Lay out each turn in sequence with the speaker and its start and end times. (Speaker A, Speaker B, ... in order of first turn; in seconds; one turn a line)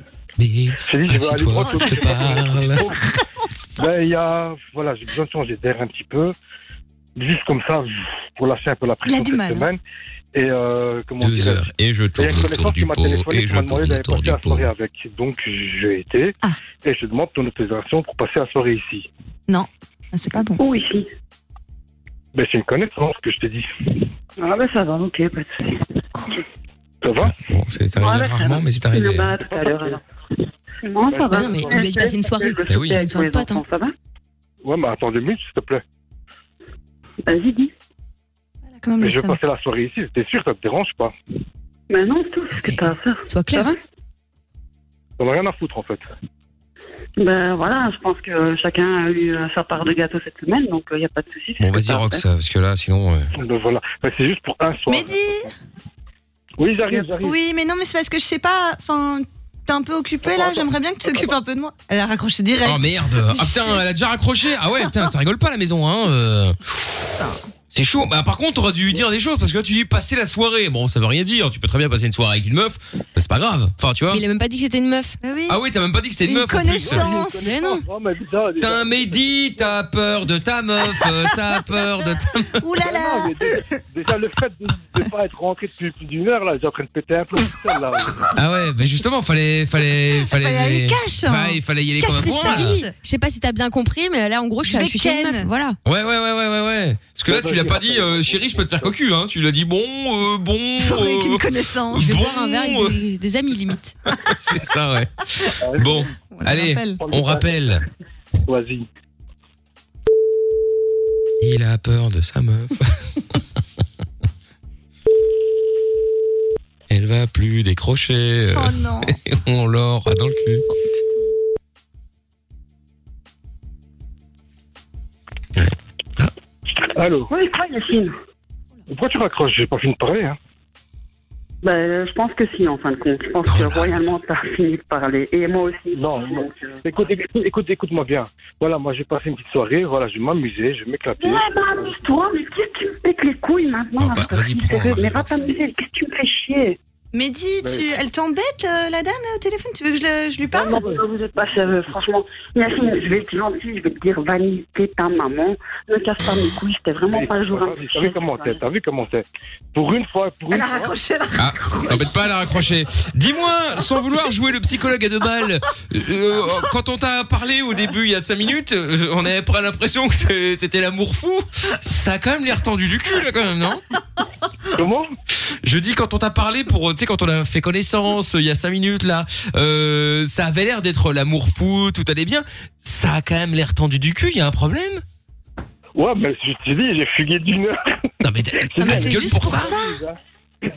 Speaker A: 0.4-2.9
Speaker B: 0.8-3.0
Speaker C: 1.7-2.1
Speaker B: 3.8-6.3
Speaker B: 7.2-9.8
Speaker C: 9.0-9.7
Speaker B: 10.3-11.6
Speaker A: 11.2-14.7
Speaker B: 12.2-19.1
Speaker C: 19.5-20.6
Speaker D: 20.6-21.1
Speaker B: 22.3-24.1
Speaker D: 24.4-26.4
Speaker B: 27.0-27.3
Speaker A: 27.2-29.4
Speaker D: 28.0-30.0
Speaker B: 29.4-30.0
Speaker D: 30.8-33.9
Speaker B: 31.1-31.8
Speaker E: 31.3-33.6
Speaker A: 32.7-33.0
Speaker B: 34.6-35.8
Speaker D: 37.3-37.7
Speaker C: 38.8-39.4
Speaker B: 39.0-41.1
Speaker D: 41.9-43.8
Speaker E: 42.6-43.7
Speaker B: 45.2-46.0
Speaker D: 47.2-52.2
Speaker A: 51.6-53.3
Speaker B: 53.3-55.5
Speaker C: 54.9-55.5
Speaker B: 56.6-57.4
Speaker C: 56.9-62.8
Speaker B: 60.2-61.4
Speaker A: 62.6-66.6
Speaker C: 63.4-63.8
Speaker A: 67.7-74.2
Speaker E: 74.1-75.2
Speaker C: 75.2-75.6
Speaker A: 75.5-77.1
Speaker C: 76.2-77.5
Speaker B: 76.7-79.7
Speaker E: 77.3-77.8
Speaker A: 78.6-82.6
Speaker C: 82.6-83.7
Speaker B: 82.8-88.2
Speaker A: 88.3-92.8
Speaker C: 90.3-92.9
Speaker E: 92.4-95.8
Speaker C: 94.6-95.5
Speaker A: 95.8-103.0
Speaker B: 97.2-98.9
Speaker C: 100.8-102.1
Speaker E: 102.0-103.9
Speaker A: 104.3-107.8
Speaker B: 105.6-106.0
Speaker C: 106.2-107.0
Speaker B: 107.0-107.8
Speaker B: 108.5-108.9
Speaker A: 111.4-113.0
Speaker A: 116.9-120.6
Speaker C: 118.5-119.1
Speaker A: 125.5-126.3
Speaker B: 126.9-127.3
Speaker D: 127.3-128.2
Speaker B: 128.9-130.4
Speaker D: 131.6-136.9
Speaker A: 133.4-134.0
Speaker B: 135.9-141.4
Speaker D: 141.2-146.8
Speaker A: 144.0-145.4
Speaker C: 147.1-150.9
Speaker B: 147.6-147.9
Speaker B: 150.5-151.0
Speaker D: 150.8-158.6
Speaker B: 157.1-160.9
Speaker C: 160.5-162.3
Speaker A: 161.3-173.8
Speaker B: 174.7-175.1
Speaker A: 175.6-185.0
Speaker B: 185.9-187.9
Speaker A: 188.2-189.8
Speaker B: 188.7-190.2
Speaker C: 188.8-190.0